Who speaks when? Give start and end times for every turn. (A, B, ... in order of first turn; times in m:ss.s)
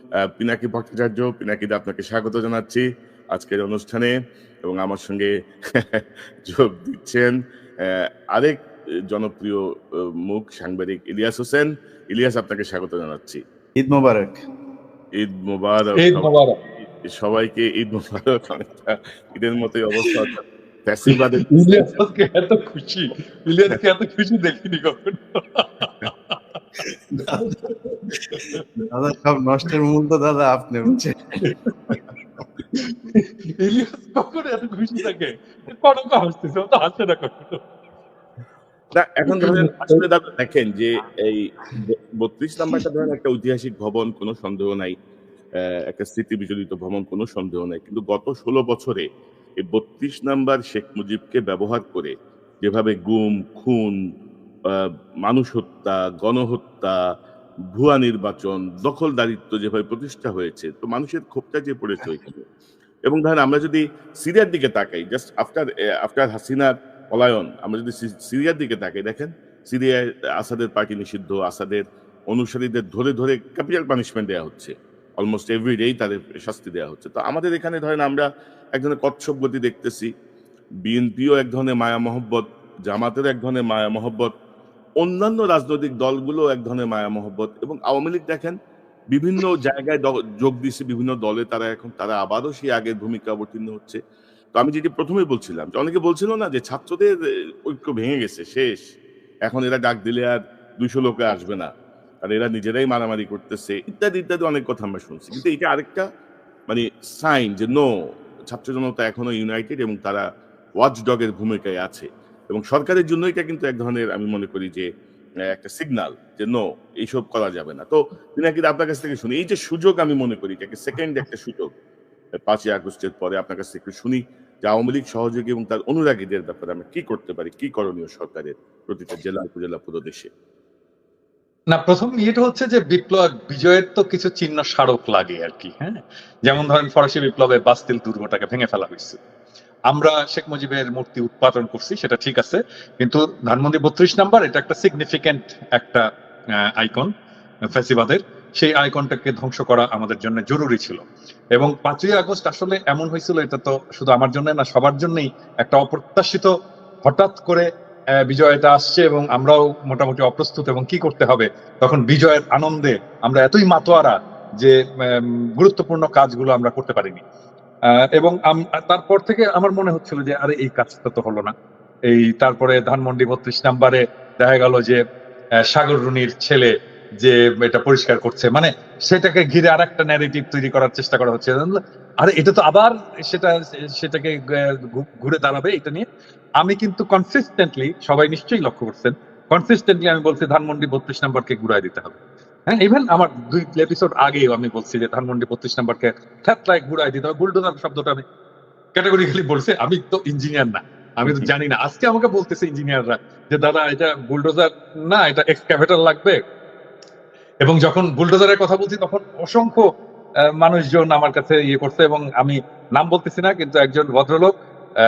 0:00.4-0:04.1 A
0:04.6-0:05.3 A
0:05.8-0:07.3 A
0:07.8-0:09.6 A
0:10.2-0:13.4 A
0:13.8-0:14.4 B
0:15.2-0:22.0 A
0:16.0-0:16.6 C
0:21.1-0:28.8 C
0:27.1-0:27.6 B
0:28.9-0:31.2 B
0:30.9-0:32.0 C
0:32.7-0:37.6 C
0:38.9-0:44.9 A
0:39.4-0:40.0 C
0:45.7-0:49.0 A
0:49.6-0:53.9 A
0:54.7-0:57.0 A
0:57.7-1:02.4 A
1:03.0-1:20.1 A
1:20.8-1:24.3 A
1:25.0-1:28.5 A
1:29.1-1:34.0 A
1:34.5-1:37.1 A
1:37.7-1:38.8 A
1:39.5-1:41.7 A
1:42.2-1:46.0 A
1:46.7-1:47.8 A
1:48.5-1:50.2 A
1:50.8-1:54.9 A
1:55.5-2:01.7 A
2:02.5-2:10.3 A
2:11.7-2:19.2 C
2:19.9-2:26.0 C
2:26.8-2:27.1 C
2:27.7-2:31.0 C
2:31.6-2:36.5 C
2:37.0-2:37.6 C
2:38.2-2:47.2 C
2:48.2-2:51.5 C
2:52.1-2:55.0 C
2:55.7-3:06.0 C
3:06.6-3:18.2 C
3:18.9-3:26.4 C
3:27.6-3:29.8 C
3:30.6-3:34.5 C